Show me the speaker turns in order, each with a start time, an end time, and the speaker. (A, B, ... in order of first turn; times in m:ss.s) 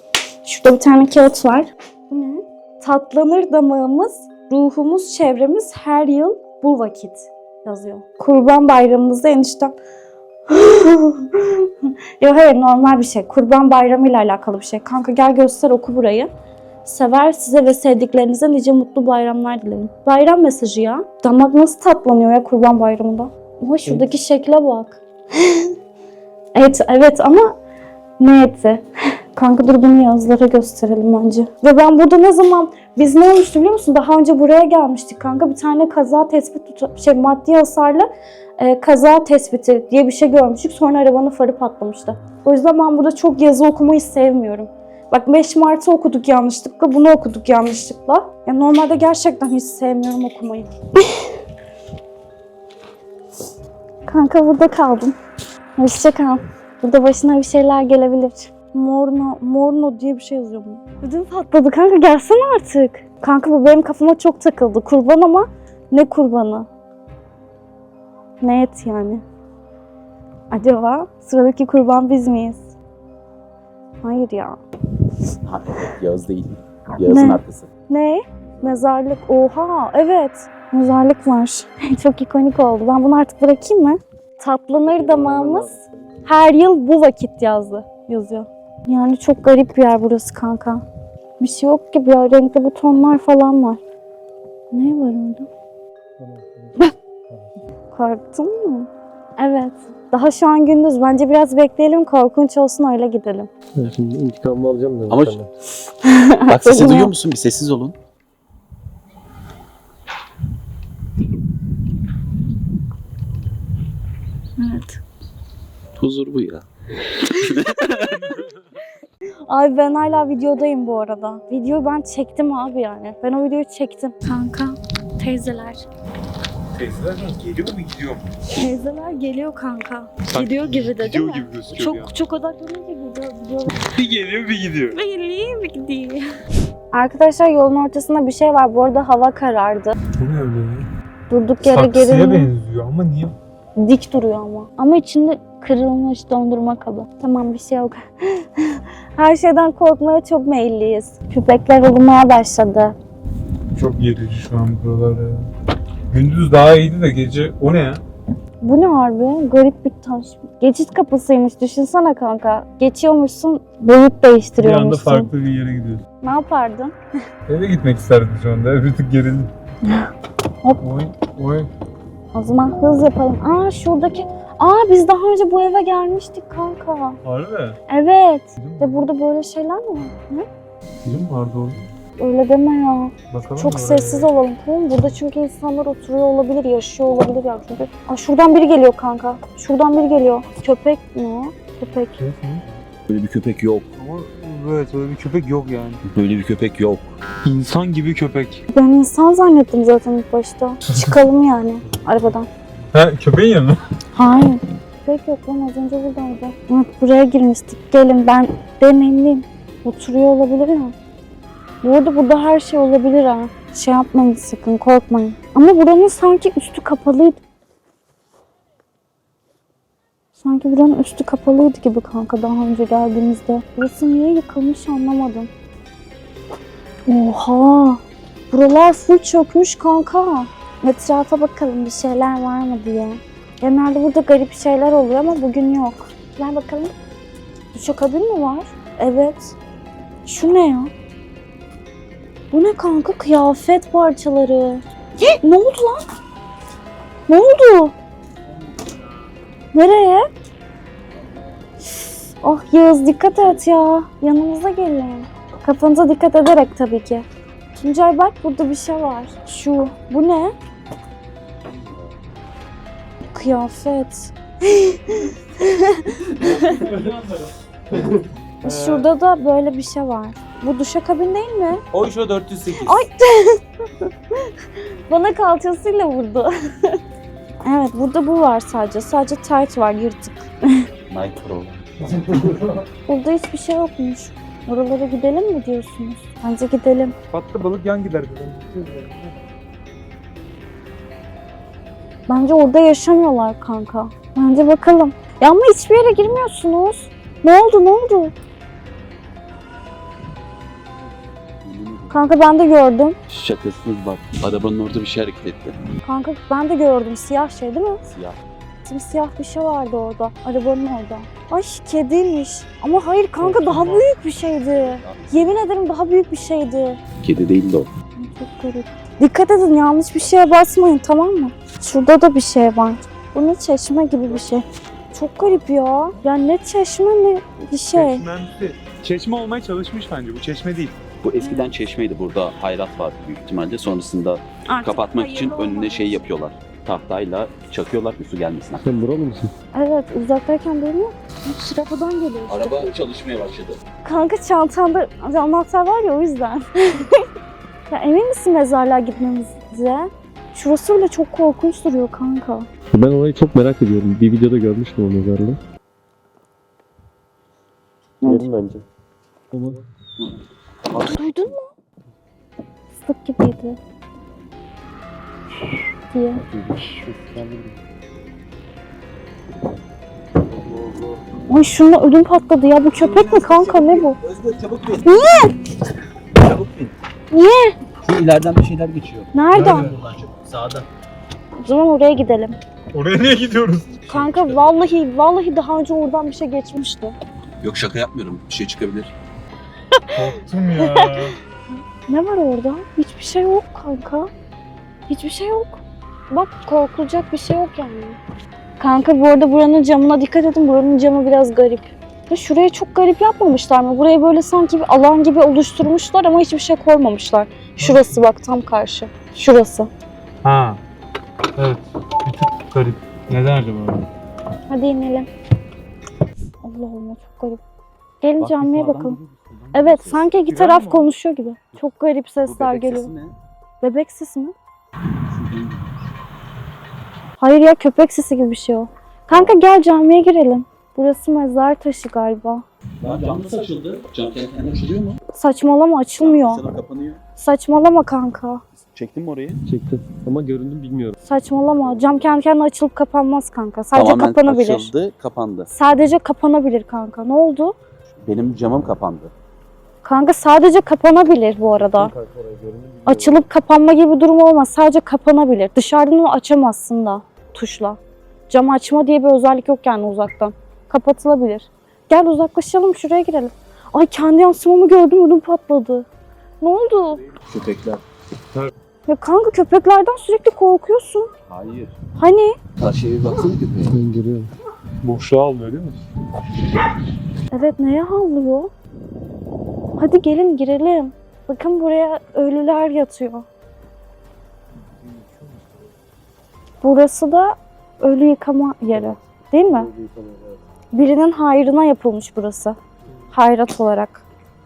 0:00.4-0:09.8 A
0:10.5-0:16.3 A
0:16.8-0:25.7 A
0:26.5-0:27.5 A
0:28.2-0:51.3 A
0:54.0-0:55.2 A
0:55.8-1:06.7 A
1:08.4-1:09.2 A
1:10.5-1:12.7 A
1:14.0-1:14.6 A
1:15.4-1:17.7 B
1:17.0-1:30.8 A
1:24.8-1:25.9 C
1:31.4-1:33.8 A
1:34.7-1:35.5 A
1:36.2-1:37.5 C
1:37.9-1:43.5 A
1:43.7-1:45.5 C
1:45.1-1:45.4 B
1:45.8-1:47.1 A
1:46.5-1:48.0 B
1:54.6-1:55.0 A
1:56.0-1:58.5 B
1:59.5-2:05.8 A
2:06.7-2:08.2 D
2:08.5-2:13.9 A
2:10.3-2:12.1 D
2:13.8-2:15.0 D
2:14.9-2:16.2 A
2:16.9-2:19.9 A
2:20.1-2:20.8 D
2:21.3-2:22.5 A
2:21.6-2:23.3 D
2:23.8-2:33.0 A
2:33.7-2:35.5 D
2:36.1-2:38.0 D
2:38.6-2:45.3 A
2:44.6-2:46.0 D
2:46.2-2:47.0 A
2:47.5-2:49.5 D
2:49.8-2:50.1 A
2:50.8-2:51.7 D
2:52.3-2:57.2 A
2:57.2-2:57.8 D
2:57.9-3:00.5 A
2:58.6-2:59.1 D
3:01.0-3:01.8 D
3:02.2-3:12.2 A
3:03.3-3:04.3 D
3:11.8-3:12.6 D
3:13.1-3:13.9 B
3:14.0-3:16.0 D
3:16.0-3:17.2 B
3:17.4-3:18.6 D
3:18.7-3:22.5 A
3:20.9-3:21.2 D
3:22.9-3:23.8 D
3:24.1-3:30.9 A
3:31.8-3:37.4 A
3:40.4-3:45.5 A
3:47.1-3:56.9 A
3:57.7-3:59.5 A
4:00.2-4:00.9 A
4:02.5-4:06.0 A
4:07.3-4:07.9 A
4:09.7-4:10.3 A
4:11.9-4:20.5 A
4:21.6-4:22.1 B
4:23.3-4:26.9 A
4:26.6-4:27.5 D
4:28.6-4:29.1 D
4:28.6-4:31.8 A
4:31.9-4:33.0 D
4:32.8-4:33.6 A
4:35.1-4:37.0 A
4:37.6-4:40.8 A
4:41.1-4:42.3 B
4:43.1-4:47.1 A
4:47.3-4:49.1 D
4:52.3-4:58.3 A
5:01.6-5:02.3 B
5:02.1-5:03.2 A
5:03.3-5:05.8 B
5:06.0-5:08.0 A
5:08.0-5:08.4 B
5:08.8-5:17.0 A
5:13.4-5:14.1 D
5:14.6-5:15.5 B
5:17.2-5:17.9 B
5:18.2-5:28.2 A
5:27.9-5:31.0 D
5:31.2-5:38.9 B
5:31.4-5:31.7 A
5:34.7-5:36.2 A
5:38.8-5:39.5 C
5:39.7-5:42.9 A
5:42.5-5:43.8 B
5:44.0-5:47.2 A
5:47.9-5:52.7 A
5:52.9-5:55.6 C
5:58.2-5:58.5 A
5:58.2-5:58.8 C
5:59.5-5:59.8 C
6:00.9-6:01.6 B
6:01.0-6:01.7 A
6:03.0-6:03.8 A
6:06.1-6:06.4 A
6:06.5-6:07.7 C
6:11.5-6:14.2 A
6:13.0-6:15.5 B
6:15.0-6:15.6 A
6:16.4-6:17.0 B
6:17.3-6:17.8 A
6:18.0-6:20.9 B
6:19.3-6:19.9 A
6:19.5-6:20.0 D
6:21.6-6:22.6 A
6:22.9-6:24.0 D
6:24.0-6:24.8 B
6:24.1-6:27.1 A
6:27.6-6:29.1 B
6:29.9-6:31.3 A
6:30.1-6:31.4 D
6:32.1-6:34.3 A
6:35.1-6:38.2 A
6:38.8-6:49.9 A
6:47.8-6:48.2 D
6:50.4-6:50.8 D
6:51.6-6:54.0 D
6:54.7-6:55.3 A
6:56.6-6:57.6 A
6:58.2-6:59.2 A
6:58.4-7:00.4 B
6:59.7-7:03.1 A
7:00.5-7:01.1 D
7:02.4-7:03.3 B
7:03.8-7:04.5 A
7:05.3-7:06.1 B
7:07.4-7:12.6 A
7:09.3-7:09.6 B
7:13.0-7:15.2 B
7:15.3-7:16.6 A
7:16.2-7:17.2 B
7:17.4-7:18.6 A
7:18.8-7:19.6 B
7:19.7-7:21.2 C
7:21.2-7:24.9 A
7:23.9-7:25.7 B
7:25.7-7:27.8 A
7:28.2-7:29.3 B
7:30.0-7:32.1 A
7:32.0-7:33.4 C
7:33.0-7:46.1 A
7:46.6-7:47.2 A
7:47.3-7:48.0 B
7:49.1-7:51.3 A
7:51.5-7:51.9 B
7:52.2-7:52.6 A
7:52.8-7:54.0 B
7:53.9-7:54.5 C
7:55.0-7:56.0 D
7:57.5-7:58.7 A
8:00.0-8:03.5 A
8:05.0-8:05.6 C
8:06.8-8:09.9 A
8:09.7-8:10.6 C
8:10.9-8:12.8 A
8:13.3-8:14.2 A